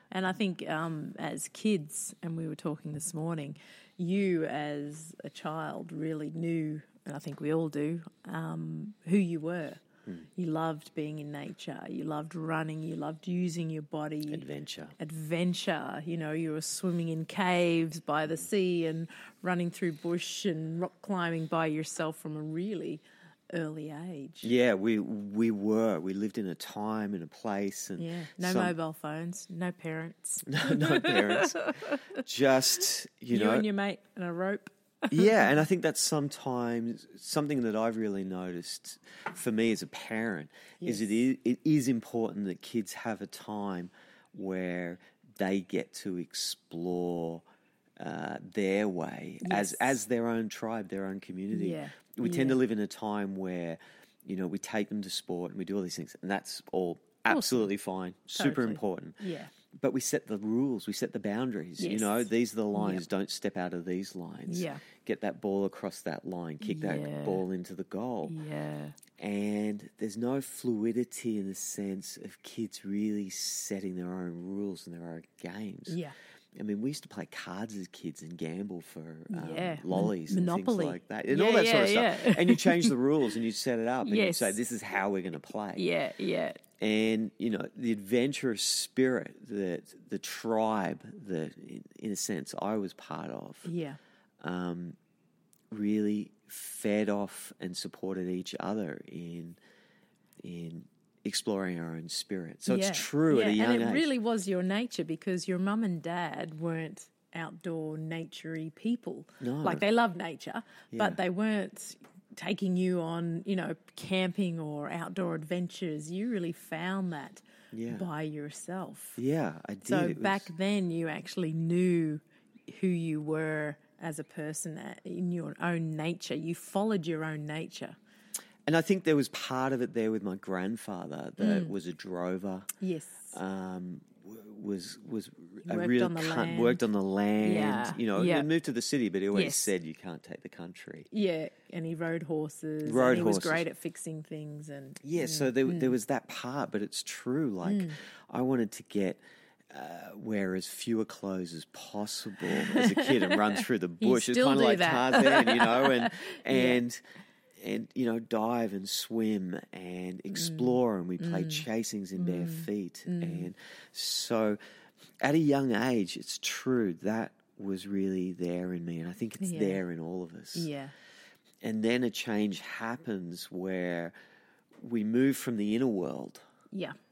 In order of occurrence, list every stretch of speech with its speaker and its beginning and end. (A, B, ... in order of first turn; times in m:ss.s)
0:00.1-0:09.8 A
0:10.4-0:14.4 A
0:14.3-0:15.0 B
0:15.0-0:24.5 A
0:24.4-0:28.7 B
0:28.0-0:32.2 A
0:30.4-0:33.7 B
0:33.3-0:35.5 A
0:35.1-0:47.4 B
0:40.8-0:41.2 A
0:48.0-0:59.2 B
0:49.4-0:49.9 A
0:51.5-0:52.6 A
0:57.3-0:57.7 A
0:58.4-0:59.5 A
0:59.7-1:08.4 B
1:01.8-1:03.0 A
1:04.5-1:04.8 A
1:06.6-1:07.4 A
1:08.3-1:09.0 A
1:09.2-1:16.0 B
1:15.9-1:16.1 A
1:16.5-1:25.9 B
1:19.3-1:23.4 A
1:24.0-1:24.6 A
1:25.7-1:26.6 A
1:26.8-1:33.7 B
1:33.6-1:34.0 A
1:34.4-1:35.0 B
1:35.7-1:39.6 B
1:40.4-1:44.1 B
1:42.6-1:59.2 A
1:49.4-1:49.8 B
1:50.9-1:51.2 B
1:57.7-1:58.1 B
1:59.2-2:00.5 B
1:59.8-2:08.0 A
2:08.7-2:12.7 B
2:11.4-2:11.7 A
2:12.8-2:13.4 A
2:13.3-2:21.1 B
2:15.6-2:16.8 A
2:17.4-2:18.5 A
2:19.3-2:19.7 A
2:21.1-2:26.0 A
2:22.8-2:23.6 B
2:25.0-2:37.0 B
2:27.6-2:28.0 A
2:32.4-2:36.8 A
2:37.6-2:44.6 B
2:40.3-2:43.5 A
2:45.2-2:50.7 B
2:49.4-2:49.8 A
2:50.5-2:50.9 A
2:51.6-2:54.1 B
2:54.8-2:56.4 B